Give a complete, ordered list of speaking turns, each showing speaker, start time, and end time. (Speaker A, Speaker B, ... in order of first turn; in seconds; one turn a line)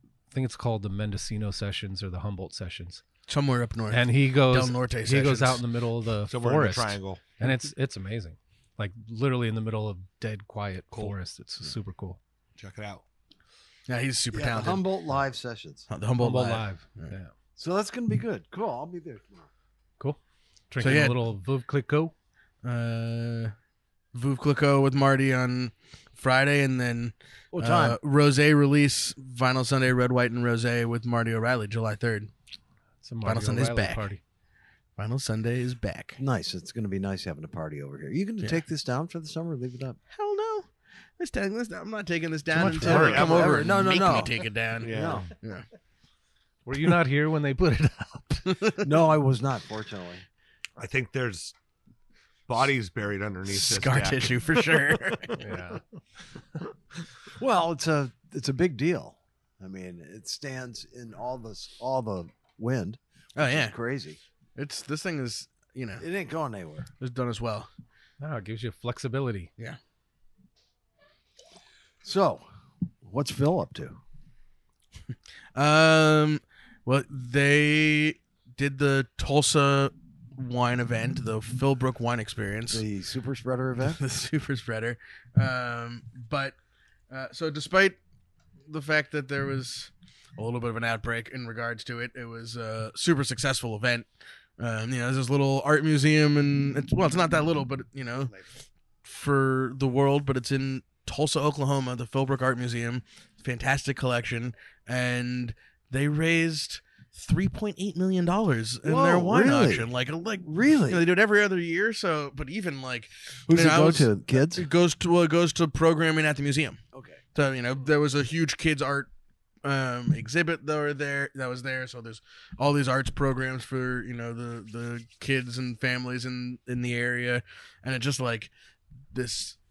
Speaker A: 0.3-3.0
Speaker B: 3.3-5.6
Speaker A: 3.9-12.2
Speaker C: 6.3-7.2
Speaker C: 12.6-13.0
Speaker B: 13.9-14.9
Speaker D: 14.3-15.9
Speaker B: 15.9-17.1
Speaker A: 16.2-17.3
Speaker D: 17.6-19.5
Speaker A: 20.7-22.1
Speaker B: 20.8-21.2
Speaker B: 22.6-23.5
Speaker B: 24.1-32.3
Speaker D: 27.5-28.0
Speaker A: 33.0-34.2
Speaker B: 33.2-34.1
Speaker B: 35.0-36.2
Speaker D: 36.2-40.0
Speaker B: 40.1-45.7
Speaker A: 42.5-43.2
Speaker D: 42.6-45.3
Speaker C: 42.8-43.7
Speaker C: 44.8-45.3
Speaker A: 46.7-48.6
Speaker D: 48.8-50.2
Speaker C: 50.8-51.5
Speaker C: 52.5-55.3
Speaker B: 53.5-55.4
Speaker A: 55.4-55.8
Speaker D: 57.4-64.2
Speaker B: 63.4-63.8
Speaker B: 64.6-66.0
Speaker D: 66.0-66.9
Speaker B: 67.0-67.7
Speaker A: 68.2-69.5
Speaker D: 72.0-72.5
Speaker D: 73.0-74.0
Speaker B: 75.5-82.8
Speaker D: 82.7-84.0
Speaker B: 83.8-86.5
Speaker B: 87.1-88.0
Speaker B: 88.7-94.1
Speaker B: 94.6-98.3
Speaker B: 99.0-116.8
Speaker D: 108.8-109.9
Speaker D: 110.4-111.1
Speaker D: 113.5-114.7
Speaker D: 116.9-117.2
Speaker B: 117.3-119.1
Speaker B: 119.6-128.5
Speaker B: 129.1-129.6